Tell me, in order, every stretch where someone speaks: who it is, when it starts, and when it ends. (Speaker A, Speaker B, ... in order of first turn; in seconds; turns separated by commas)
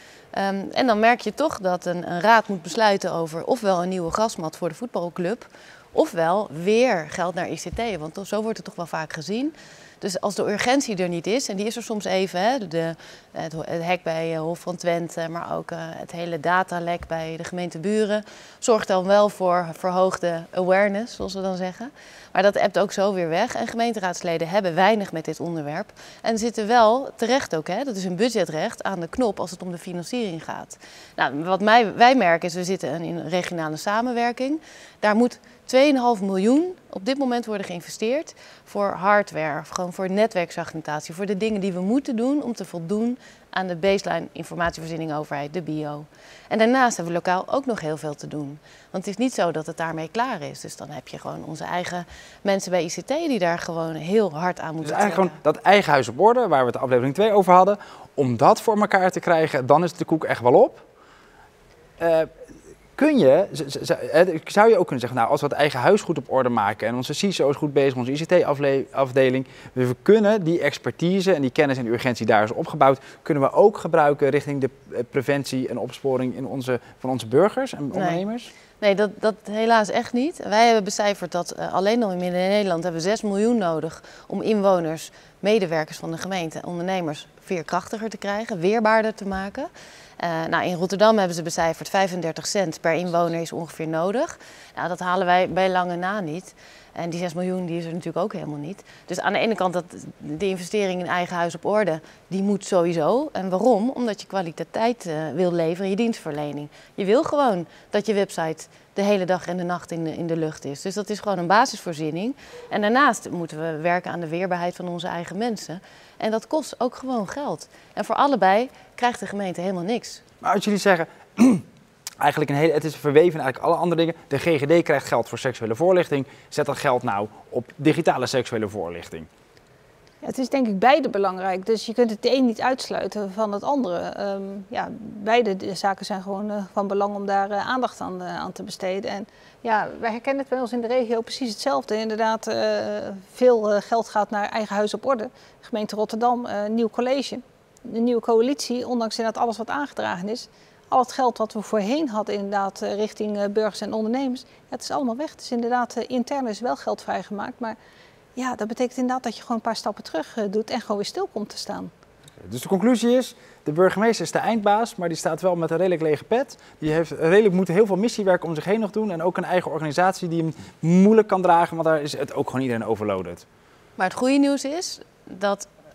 Speaker A: 0.3-55.4, Speaker B: 54.8-60.8, Speaker B: 62.0-62.3, Speaker B: 63.0-78.5, Speaker A: 77.9-78.2, Speaker A: 78.8-120.2, Speaker B: 120.4-121.6, Speaker B: 122.2-129.3, Speaker C: 130.2-157.8, Speaker C: 158.3-161.9, Speaker B: 162.4-173.4, Speaker A: 174.0-175.7